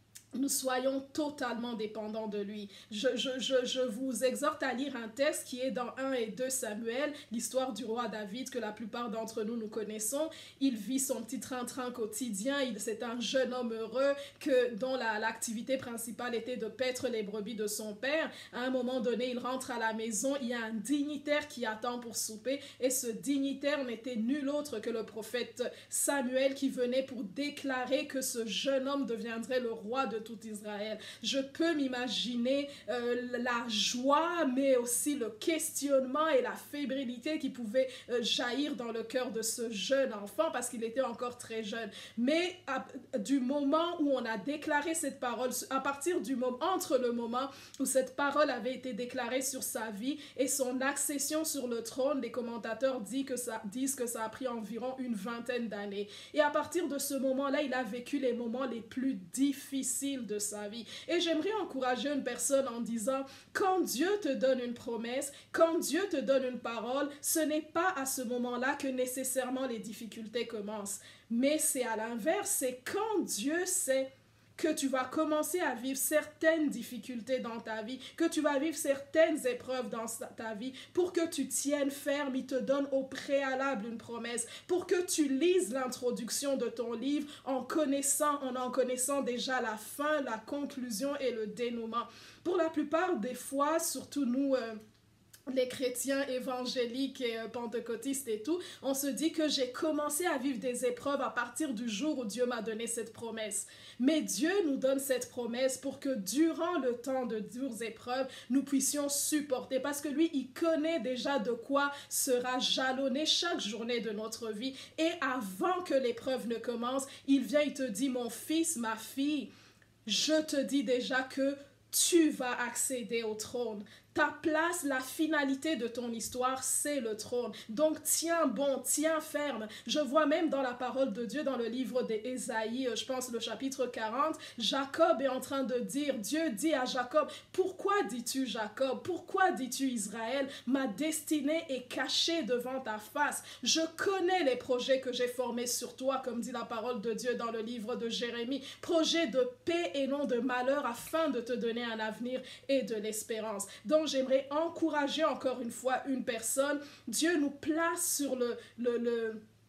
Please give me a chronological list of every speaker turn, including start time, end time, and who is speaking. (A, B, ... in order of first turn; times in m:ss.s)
0:00.3-1:34.8 A
1:35.5-1:59.5 A
2:00.0-2:39.4 A